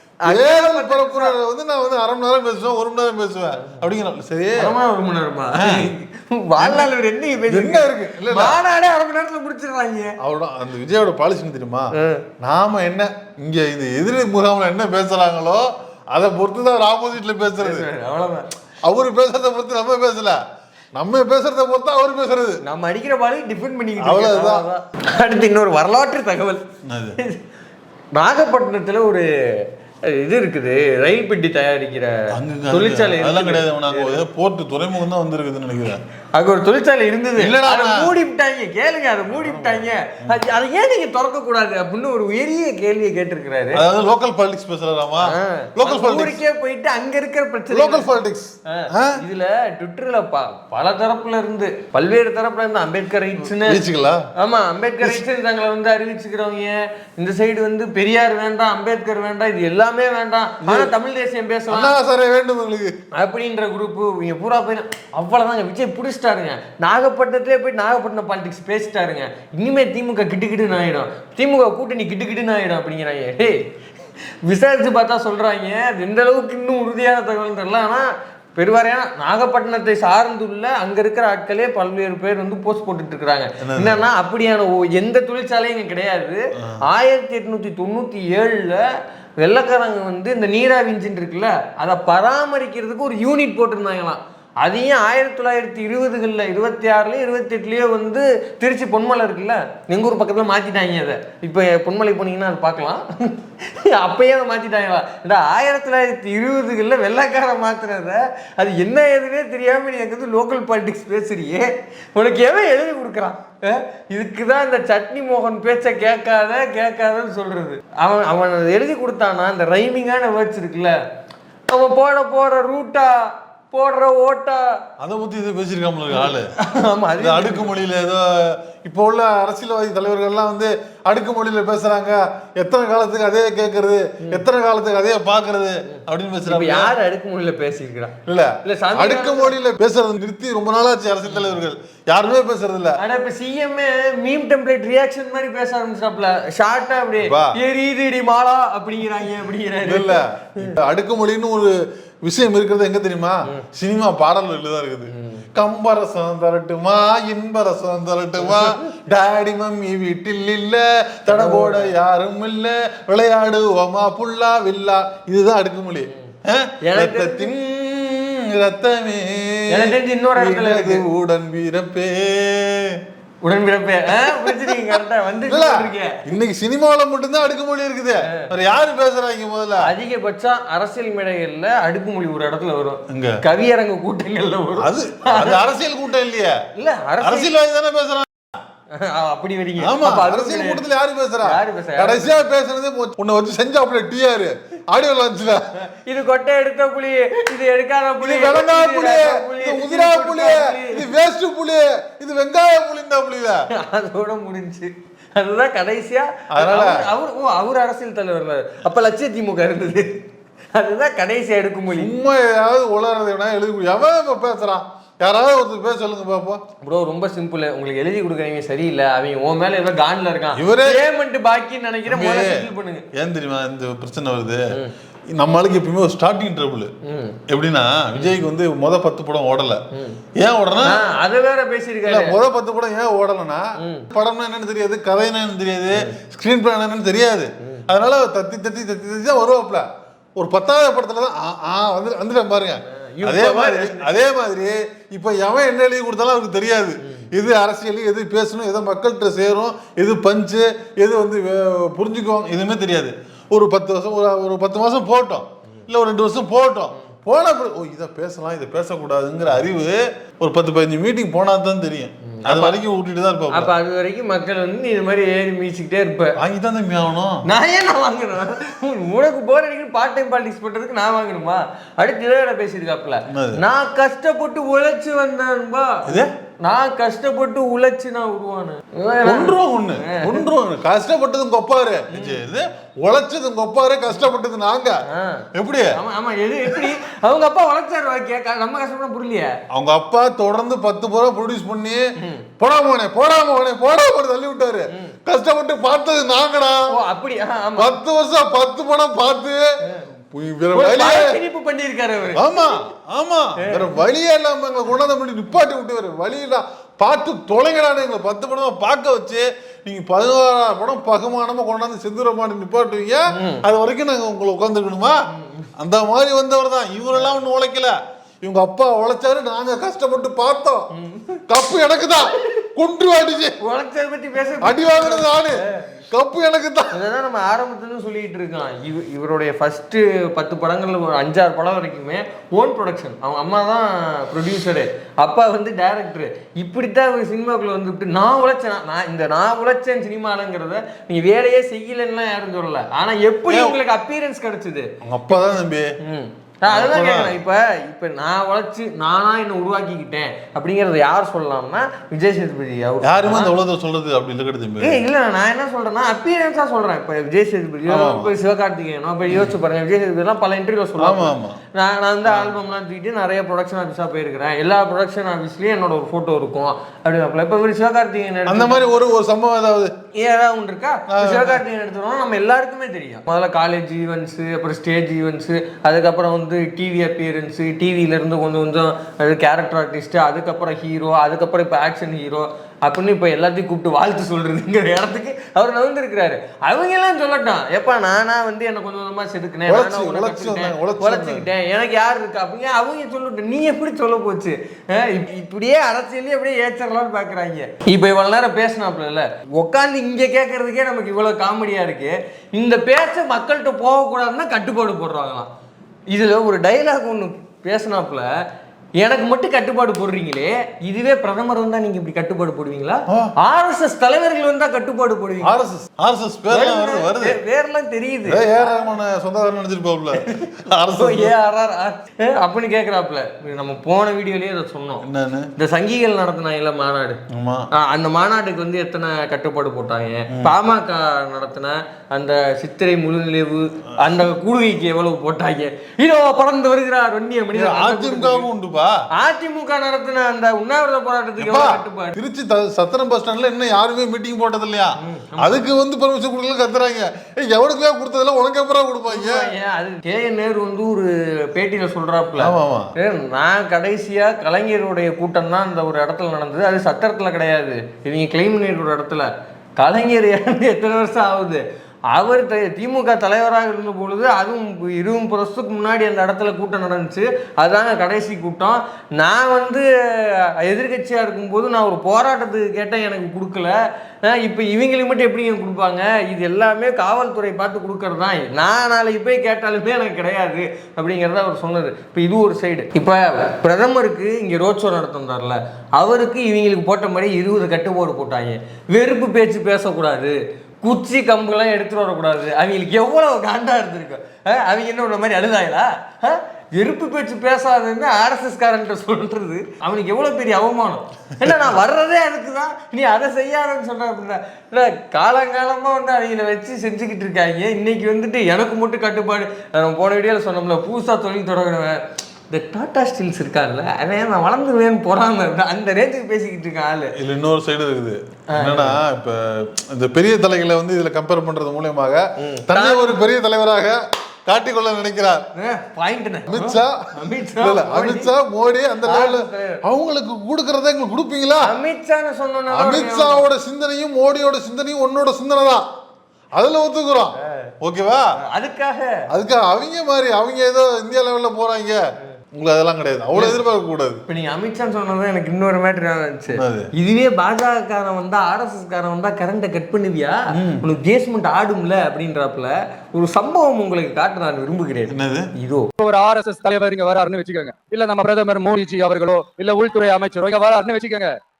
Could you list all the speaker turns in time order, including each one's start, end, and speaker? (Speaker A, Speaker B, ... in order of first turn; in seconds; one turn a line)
Speaker A: 0.2-1.3
Speaker B: 0.3-4.7
Speaker A: 4.5-10.2
Speaker B: 5.5-5.9
Speaker B: 6.6-6.9
Speaker B: 7.5-8.6
Speaker B: 10.2-17.9
Speaker A: 11.9-12.2
Speaker A: 17.6-18.5
Speaker B: 18.9-20.4
Speaker B: 20.9-22.6
Speaker A: 22.6-26.6
Speaker B: 24.0-24.6
Speaker B: 26.9-27.2
Speaker A: 28.1-34.2
Speaker B: 32.3-36.0
Speaker A: 36.3-43.8
Speaker B: 37.4-38.1
Speaker B: 39.3-40.4
Speaker B: 43.8-46.4
Speaker A: 45.2-48.1
Speaker B: 47.7-49.2
Speaker A: 48.7-53.8
Speaker B: 53.4-54.3
Speaker A: 54.4-61.9
Speaker B: 60.6-60.9
Speaker B: 61.7-63.0
Speaker A: 63.1-73.6
Speaker A: 74.4-121.0
Speaker B: 83.6-84.0
Speaker A: 121.7-124.8
Speaker B: 125.0-126.5
Speaker A: 126.1-127.7
Speaker B: 127.2-136.9
Speaker A: 135.9-139.5
Speaker B: 138.3-143.0
Speaker A: 141.3-141.6
Speaker A: 143.0-150.8
Speaker B: 147.2-147.6
Speaker B: 149.8-173.0
Speaker A: 155.1-155.4
Speaker A: 158.4-158.8
Speaker A: 161.3-161.9
Speaker A: 166.8-167.5
Speaker A: 169.7-171.0
Speaker A: 173.4-176.2
Speaker B: 174.2-179.9
Speaker A: 179.8-185.6
Speaker B: 183.1-183.4
Speaker B: 184.8-186.6
Speaker A: 186.8-187.5
Speaker B: 187.2-188.3
Speaker A: 188.9-190.8
Speaker B: 189.8-195.6
Speaker A: 191.4-192.3
Speaker A: 195.8-201.1
Speaker B: 198.2-203.6
Speaker A: 203.7-210.2
Speaker B: 206.5-207.1
Speaker A: 210.8-212.1
Speaker B: 211.9-216.6
Speaker A: 216.8-223.1
Speaker B: 220.6-221.0
Speaker B: 222.1-224.7
Speaker B: 225.4-226.9
Speaker A: 227.1-227.4
Speaker B: 227.5-229.8
Speaker A: 229.9-230.2
Speaker B: 230.4-231.0
Speaker A: 230.8-232.4
Speaker B: 232.1-263.7
Speaker A: 233.8-234.1
Speaker A: 235.9-236.2
Speaker A: 242.9-244.1
Speaker A: 262.3-262.8
Speaker A: 263.5-266.4
Speaker B: 266.4-267.4
Speaker A: 267.5-280.5
Speaker B: 273.3-273.6
Speaker B: 276.1-276.3
Speaker B: 279.2-285.0
Speaker A: 282.1-282.4
Speaker A: 285.1-289.6
Speaker B: 285.6-286.0
Speaker B: 289.7-292.0
Speaker A: 292.2-292.4
Speaker B: 292.6-297.0
Speaker A: 296.9-298.0
Speaker B: 297.8-299.6
Speaker B: 300.3-301.4
Speaker A: 300.7-302.5
Speaker B: 302.3-315.2
Speaker A: 303.6-303.9
Speaker A: 313.3-313.6
Speaker A: 315.3-315.7
Speaker B: 315.8-320.9
Speaker A: 320.9-321.4
Speaker B: 321.5-323.6
Speaker A: 323.6-325.8
Speaker B: 324.6-326.9
Speaker A: 326.9-344.9
Speaker B: 343.5-343.8
Speaker B: 345.0-345.9
Speaker A: 346.0-353.5
Speaker B: 346.7-347.3
Speaker B: 353.0-355.0
Speaker A: 354.8-369.0
Speaker B: 357.9-358.3
Speaker B: 361.0-361.6
Speaker B: 362.2-362.5
Speaker B: 368.5-369.9
Speaker A: 370.1-405.5
Speaker B: 371.1-371.6
Speaker B: 389.7-391.5
Speaker A: 406.1-408.3
Speaker A: 409.0-415.5
Speaker B: 415.4-417.4
Speaker A: 416.5-418.4
Speaker B: 418.3-421.3
Speaker A: 420.2-425.1
Speaker B: 425.0-425.5
Speaker A: 425.6-427.2
Speaker B: 427.3-427.7
Speaker A: 427.7-438.5
Speaker B: 437.5-439.0
Speaker A: 439.2-442.2
Speaker B: 441.4-449.5
Speaker A: 445.0-445.6
Speaker A: 449.1-517.1
Speaker B: 452.4-452.9
Speaker B: 517.2-525.5
Speaker A: 518.5-519.0
Speaker A: 522.4-523.2
Speaker A: 525.5-528.3
Speaker B: 526.5-531.8
Speaker A: 529.1-529.8
Speaker A: 531.6-533.5
Speaker B: 532.7-535.9
Speaker B: 536.5-538.3
Speaker A: 537.4-537.7
Speaker A: 538.5-539.2
Speaker B: 539.3-542.0
Speaker B: 542.5-544.2
Speaker A: 544.3-555.9
Speaker B: 546.5-546.9
Speaker B: 550.5-550.8
Speaker B: 555.1-555.5
Speaker C: 556.0-561.3